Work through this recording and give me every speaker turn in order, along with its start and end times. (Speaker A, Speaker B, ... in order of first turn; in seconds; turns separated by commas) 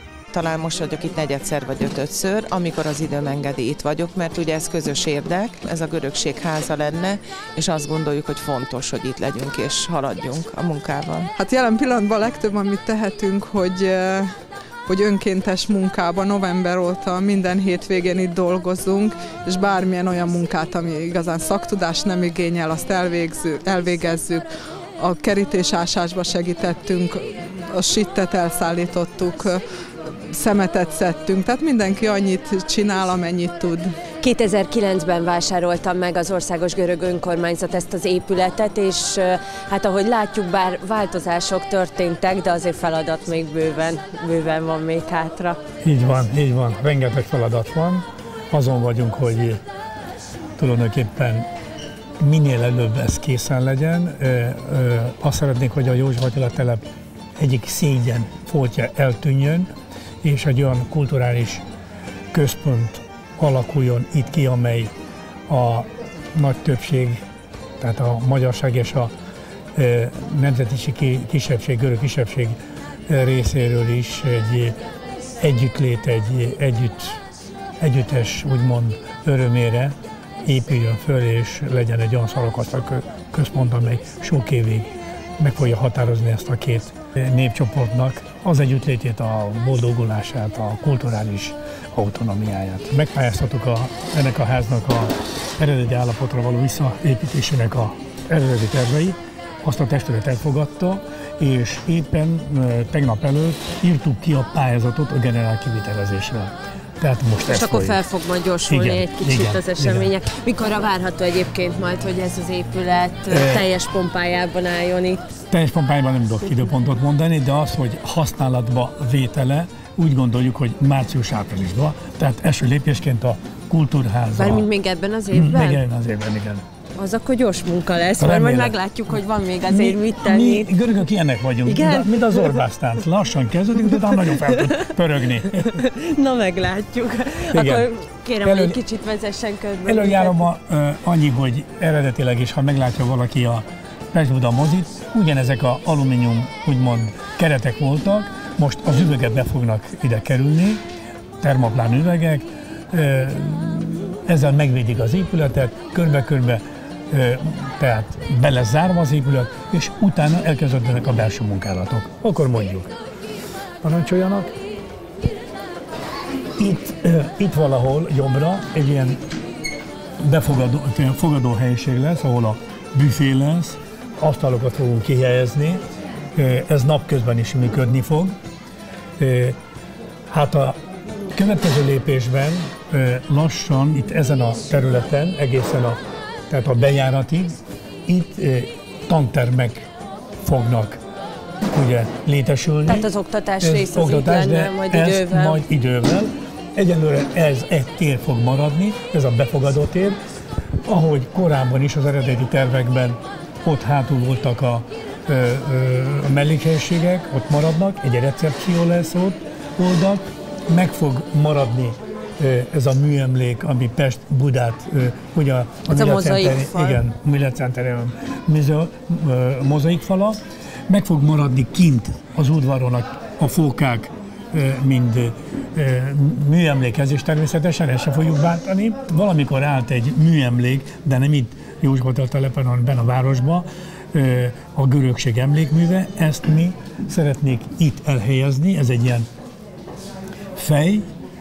Speaker A: 0.3-11.2, Speaker B: 11.3-14.3, Speaker B: 14.9-24.5, Speaker B: 25.0-33.9, Speaker C: 34.2-45.6, Speaker D: 45.8-49.6, Speaker D: 50.6-51.5, Speaker D: 52.2-56.8, Speaker D: 57.4-59.7, Speaker D: 60.2-61.6, Speaker D: 62.3-64.9, Speaker D: 65.5-67.2, Speaker D: 67.8-69.1, Speaker D: 69.8-72.6, Speaker D: 73.1-74.8, Speaker D: 75.4-77.2, Speaker D: 77.8-108.0, Speaker C: 107.5-115.2, Speaker D: 108.6-110.1, Speaker D: 113.3-113.7, Speaker D: 115.5-124.7, Speaker C: 124.3-125.8, Speaker D: 125.3-126.6, Speaker C: 127.0-130.7, Speaker D: 128.2-128.7, Speaker D: 129.7-135.8, Speaker C: 131.6-132.6, Speaker C: 134.2-134.9, Speaker C: 135.5-140.5, Speaker D: 137.5-137.9, Speaker D: 138.4-138.8, Speaker D: 139.8-150.8, Speaker D: 151.4-162.9, Speaker D: 163.8-164.5, Speaker D: 166.6-169.2, Speaker D: 170.2-175.8, Speaker D: 176.3-178.3, Speaker D: 179.2-179.6, Speaker D: 180.3-180.8, Speaker D: 181.3-189.9, Speaker D: 190.4-191.0, Speaker D: 191.7-193.1, Speaker C: 192.8-195.6, Speaker D: 193.6-200.2, Speaker D: 200.8-239.3, Speaker C: 215.9-217.0, Speaker D: 240.6-241.1